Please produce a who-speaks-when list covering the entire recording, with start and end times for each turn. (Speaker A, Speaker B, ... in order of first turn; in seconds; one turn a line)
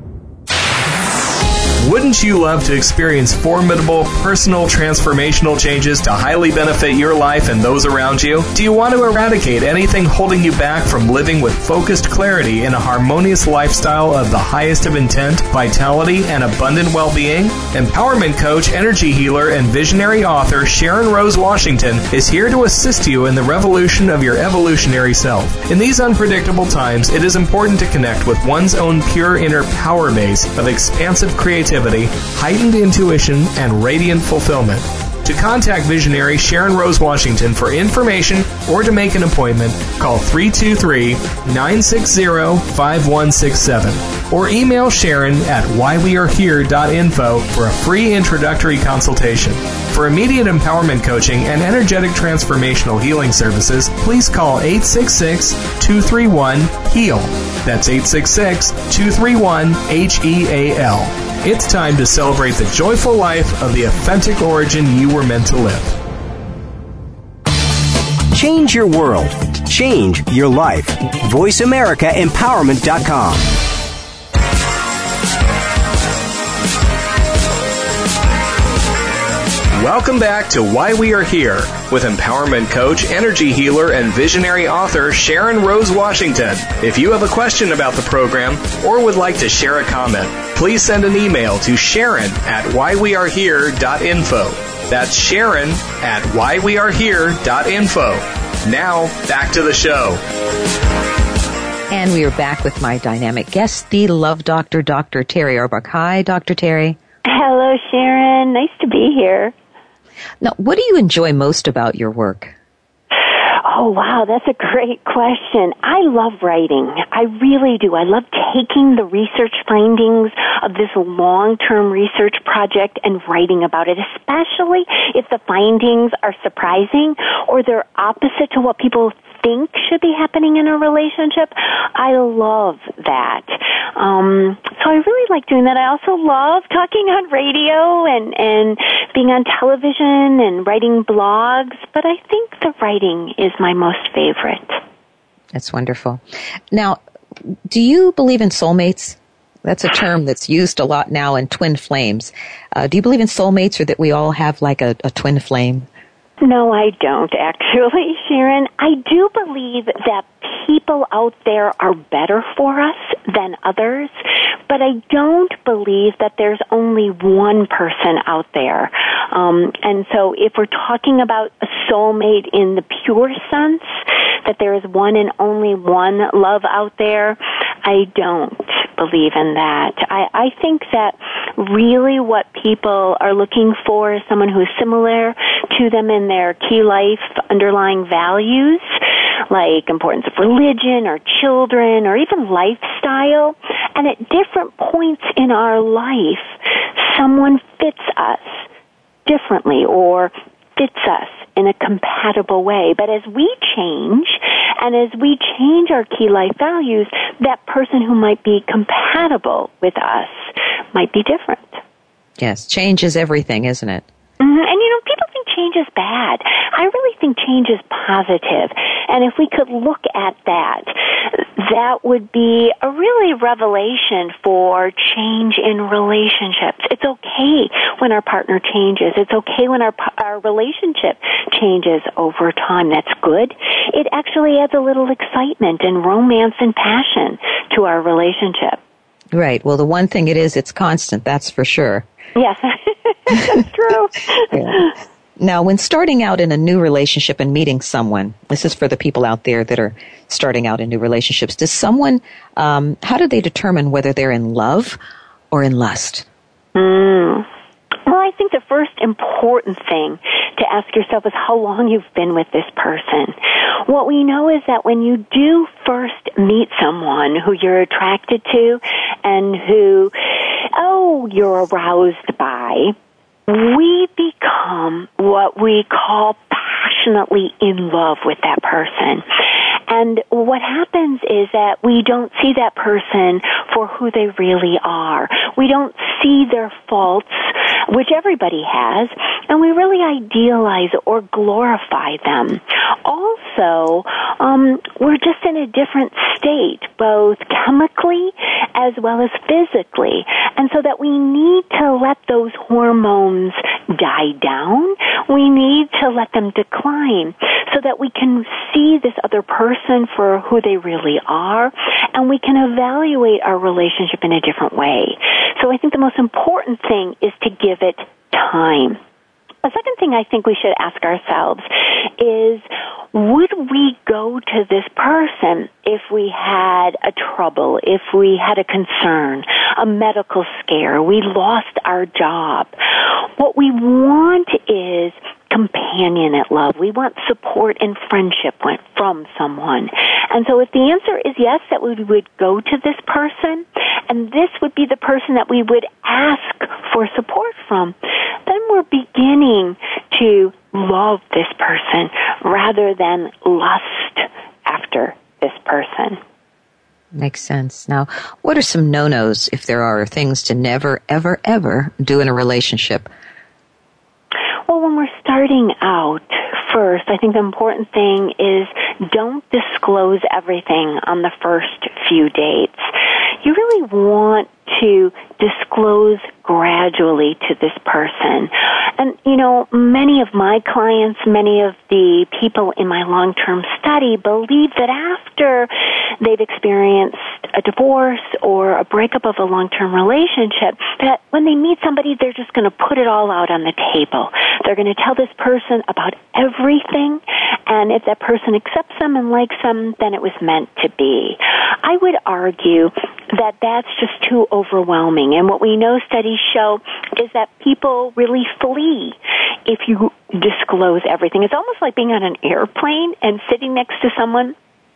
Speaker A: 1.8-66.0
Speaker B: 68.3-73.5
Speaker A: 79.8-100.2
Speaker C: 101.9-107.0
Speaker D: 107.3-109.5
Speaker C: 110.4-112.5
Speaker D: 113.6-144.8
Speaker C: 145.5-147.0
Speaker C: 147.7-155.9
Speaker D: 156.4-164.2
Speaker D: 164.7-188.9
Speaker D: 189.5-198.7
Speaker D: 199.3-211.8
Speaker C: 212.4-214.1
Speaker D: 214.4-238.8
Speaker C: 239.3-242.1
Speaker D: 242.3-244.9
Speaker C: 244.5-244.9
Speaker C: 245.4-255.0
Speaker C: 255.5-256.3
Speaker D: 256.8-257.5
Speaker D: 258.1-270.1
Speaker D: 270.7-272.9
Speaker D: 273.5-279.2
Speaker D: 279.9-319.0
Speaker D: 319.6-332.7
Speaker D: 333.4-356.2
Speaker C: 357.1-363.1
Speaker D: 364.7-372.9
Speaker D: 373.4-414.6